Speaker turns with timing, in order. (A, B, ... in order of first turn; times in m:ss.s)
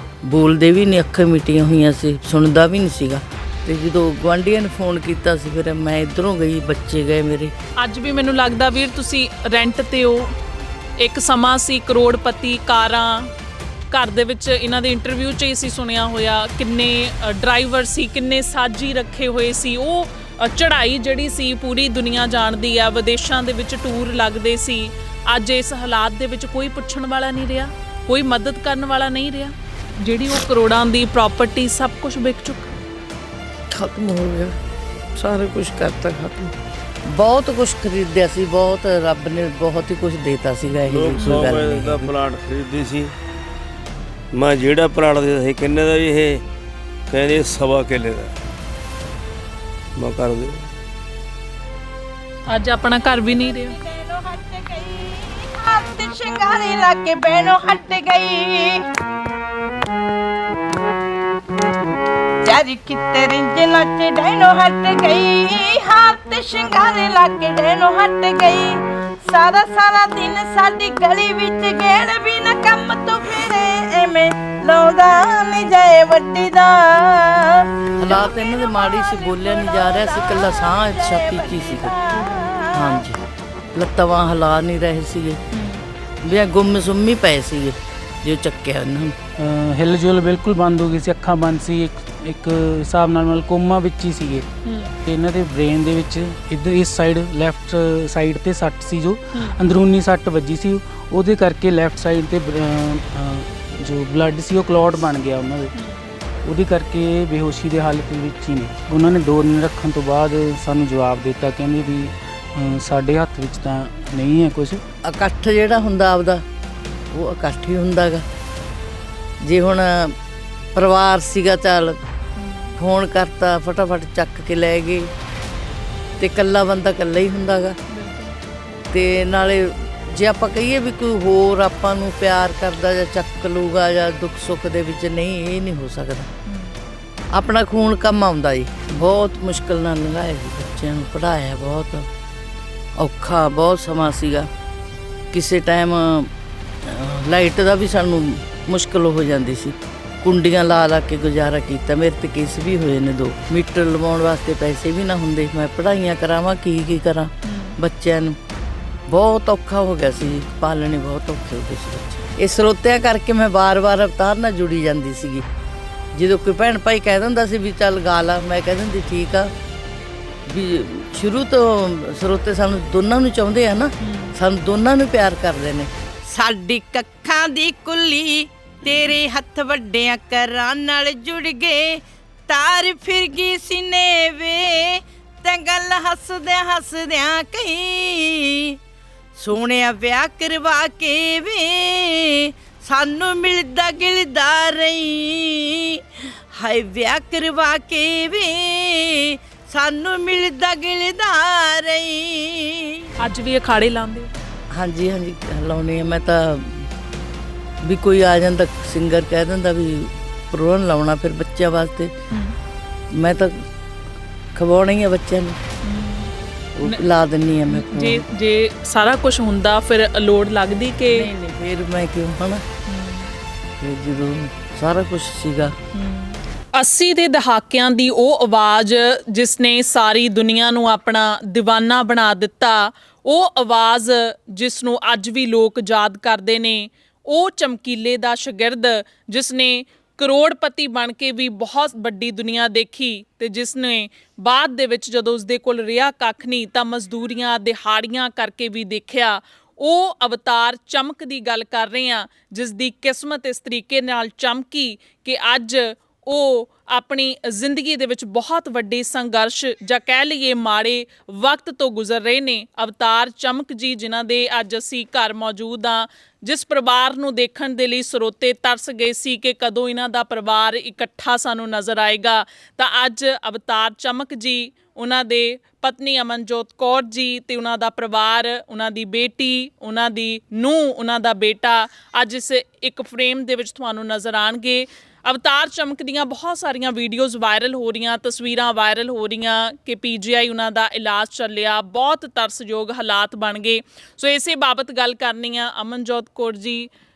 0:00.2-0:07.5 A
0:07.8-0:10.3 B
0:11.0-0:13.3 B
0:13.9-0:32.7 B
0:33.7-0:34.6 A
0:35.2-0:36.5 A
0:37.0-0:42.1 A
0:40.9-0:43.1 C
0:41.2-0:41.5 B
0:44.3-0:46.4 C
0:47.1-0:48.4 C
0:50.0-0:50.6 C
0:52.5-0:53.8 B
0:53.6-0:58.8 D
1:02.4-1:23.0 D
1:18.0-1:21.9 A
1:22.7-1:23.2 A
1:23.7-1:25.4 A
1:25.5-1:25.8 B
1:26.2-1:29.2 A
1:29.4-1:34.5 E
1:34.6-1:34.9 B
1:35.0-1:45.7 E
1:39.3-1:39.6 B
1:45.7-1:46.0 B
1:46.4-1:54.8 E
1:55.0-1:56.4 A
1:57.1-1:58.2 A
1:59.4-2:00.2 A
2:00.7-2:02.0 A
2:02.4-2:02.7 B
2:02.8-2:05.1 A
2:06.2-2:07.8 A
2:07.9-2:08.4 B
2:08.9-2:16.3 A
2:16.4-2:16.7 B
2:17.3-2:22.1 A
2:23.0-2:24.5 A
2:25.3-2:26.3 A
2:26.8-2:38.4 A
2:37.4-2:37.8 B
2:39.1-2:45.5 A
2:46.1-2:49.5 A
2:50.5-2:55.9 A
2:54.0-2:54.4 B
2:56.3-3:08.8 D
3:09.4-3:23.1 D
3:23.2-3:24.3 B
3:24.7-3:26.9 A
3:27.8-3:32.1 A
3:32.3-3:32.6 B
3:33.1-3:33.7 A
3:34.6-3:35.6 A
3:35.8-3:37.0 B
3:36.7-3:38.2 A
3:37.7-3:41.3 B
3:41.1-3:42.6 A
3:42.9-3:43.3 B
3:43.8-3:45.8 A
3:45.9-4:56.9 B